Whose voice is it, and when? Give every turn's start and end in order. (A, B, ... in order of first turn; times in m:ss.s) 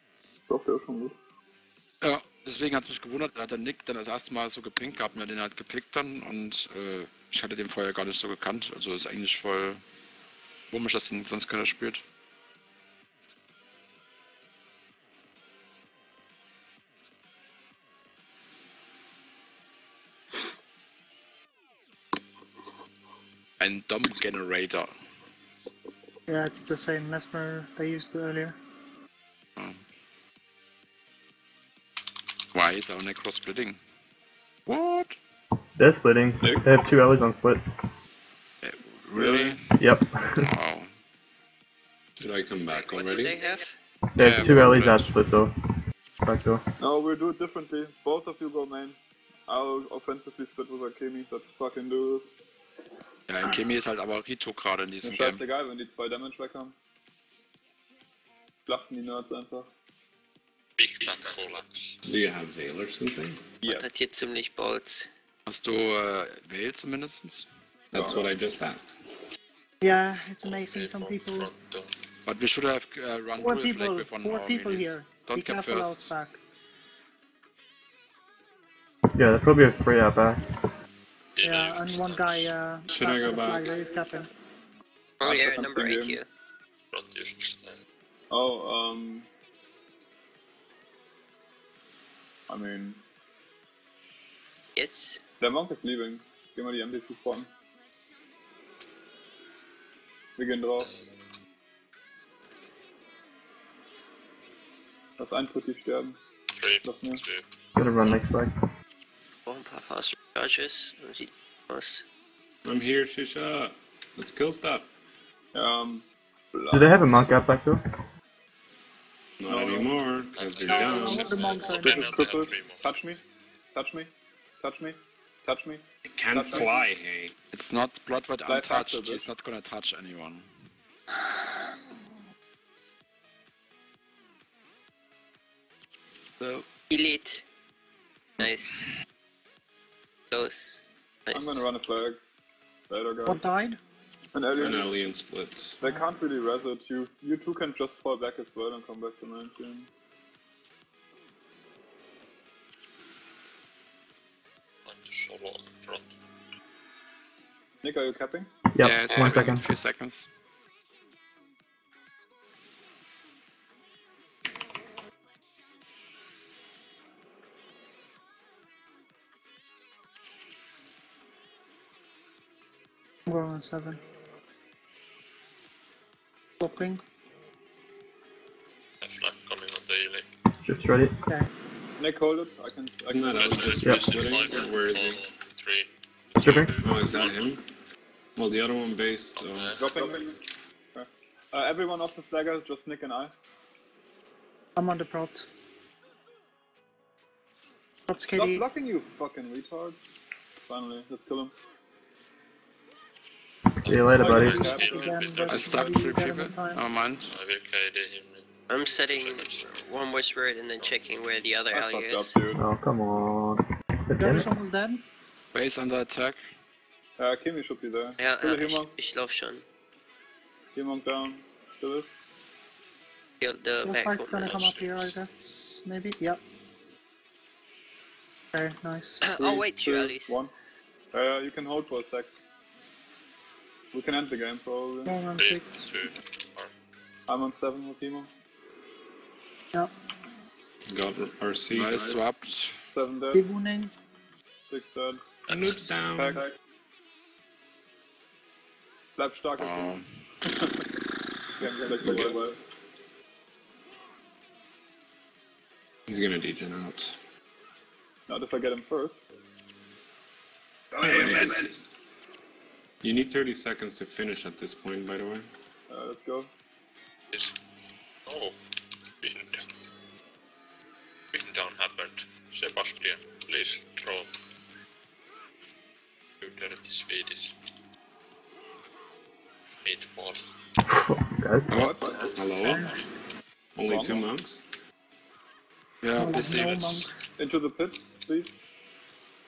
0:00.5-0:01.2 A
0:02.0-0:09.8 B
0:10.7-0:12.0 B
0:23.6-0:24.9 B
0:26.3-0:28.6 C
0:32.5-0:33.8 B
0:34.7-0:35.2 B
0:35.8-0:37.6 D
0:36.4-0:36.8 A
0:38.6-0:39.8 B
0:39.2-0:39.6 A
0:39.8-0:40.5 D
0:40.4-0:40.9 B
0:42.2-0:43.5 E
0:42.7-0:43.7 F
0:44.2-0:45.5 D
0:44.2-0:45.1 B
0:46.2-0:46.6 D
0:46.8-0:52.3 A
0:53.3-0:55.5 B
0:55.0-0:56.8 A
0:58.7-0:59.7 A
1:00.8-1:02.0 G
1:02.0-1:03.4 E
1:03.6-1:03.9 A
1:03.7-1:05.1 F
1:05.5-1:07.5 B
1:07.9-1:08.9 E
1:07.9-1:08.3 A
1:09.8-1:11.5 C
1:10.4-1:11.9 G
1:12.3-1:16.1 B
1:13.4-1:16.4 C
1:19.2-1:20.4 D
1:21.4-1:22.6 G
1:21.4-1:24.3 C
1:22.9-1:23.7 E
1:25.2-1:26.3 F
1:25.2-1:26.2 A
1:26.9-1:27.8 G
1:28.3-1:29.3 A
1:32.5-1:33.0 A
1:34.8-1:35.2 F
1:35.4-1:37.5 A
1:40.4-1:40.9 A
1:45.2-1:46.2 A
1:46.5-1:47.4 G
1:46.8-1:47.2 A
1:47.8-1:48.5 D
1:49.5-1:52.0 F
1:52.6-1:54.9 E
1:55.5-1:57.3 A
1:56.7-1:57.8 D
1:59.4-2:01.4 E
1:59.4-2:00.0 A
2:00.3-2:03.0 G
2:00.4-2:00.8 B
2:00.7-2:02.1 C
2:01.7-2:03.2 A
2:03.7-2:06.8 A
2:06.0-2:07.4 E
2:07.5-2:10.5 B
2:08.5-2:09.3 A
2:16.4-2:16.7 B
2:16.9-2:17.4 F
2:18.4-2:18.8 F
2:20.3-2:21.6 F
2:21.3-2:22.2 A
2:22.9-2:23.4 A
2:23.3-2:23.8 C
2:24.3-2:25.0 A
2:24.6-2:25.8 E
2:25.8-2:29.9 A
2:25.8-2:26.1 C
2:34.9-2:36.1 G
2:37.8-2:38.5 A
2:38.7-2:39.6 D
2:38.8-2:40.3 B
2:39.1-2:39.4 G
2:53.3-2:54.0 C
2:56.6-2:57.0 C
2:59.0-3:00.3 G
3:00.6-3:01.1 D
3:02.0-3:03.9 A
3:03.1-3:05.2 E
3:03.3-3:07.6 G
3:06.4-3:06.8 D
3:06.8-3:07.6 E
3:08.4-3:09.8 E
3:09.3-3:10.2 G
3:09.8-3:10.3 A
3:10.9-3:13.3 A
3:14.8-3:15.5 C
3:18.1-3:18.6 C
3:18.4-3:20.0 A
3:20.7-3:21.5 A
3:23.8-3:25.6 G
3:23.8-3:24.7 D
3:24.2-3:26.0 A
3:24.5-3:26.8 C
3:25.5-3:27.3 B
3:27.3-3:29.8 G
3:28.7-3:32.4 F
3:30.8-3:31.0 G
3:31.7-3:32.6 A
3:32.5-3:34.5 D
3:34.2-3:35.0 C
3:35.5-3:36.4 B
3:37.2-3:39.0 A
3:38.2-3:39.6 F
3:40.7-3:42.2 A
3:43.4-3:44.5 F
3:43.8-3:46.4 C
3:44.4-3:45.2 G
3:48.5-3:49.2 C
3:49.2-3:50.4 F
3:49.4-3:50.5 A
3:51.1-3:52.3 A
3:53.9-3:55.2 A
3:55.0-3:55.9 C
3:55.4-3:56.7 G
3:57.3-3:58.3 A
4:00.9-4:02.2 E
4:01.7-4:02.7 B
4:02.9-4:03.4 A
4:03.3-4:03.9 C
4:04.7-4:05.2 A
4:05.5-4:06.0 G
4:05.5-4:06.4 E
4:06.1-4:06.5 A
4:09.2-4:10.9 A
4:09.6-4:10.1 B
4:11.6-4:12.6 A
4:12.0-4:12.4 E
4:16.1-4:17.2 E
4:18.3-4:19.2 A
4:21.0-4:21.8 E
4:23.0-4:25.5 E
4:25.9-4:26.5 A
4:28.3-4:28.6 G
4:29.2-4:29.6 G
4:31.3-4:34.3 G
4:36.4-4:37.5 G
4:39.8-4:40.4 G
4:40.9-4:41.7 D
4:41.7-4:42.0 B
4:41.7-4:42.3 A
4:42.2-4:43.0 G
4:42.3-4:42.9 E
4:42.5-4:43.0 C
4:43.8-4:44.6 E
4:43.8-4:44.3 A
4:46.0-4:47.1 B
4:46.2-4:47.1 C
4:47.4-4:48.6 A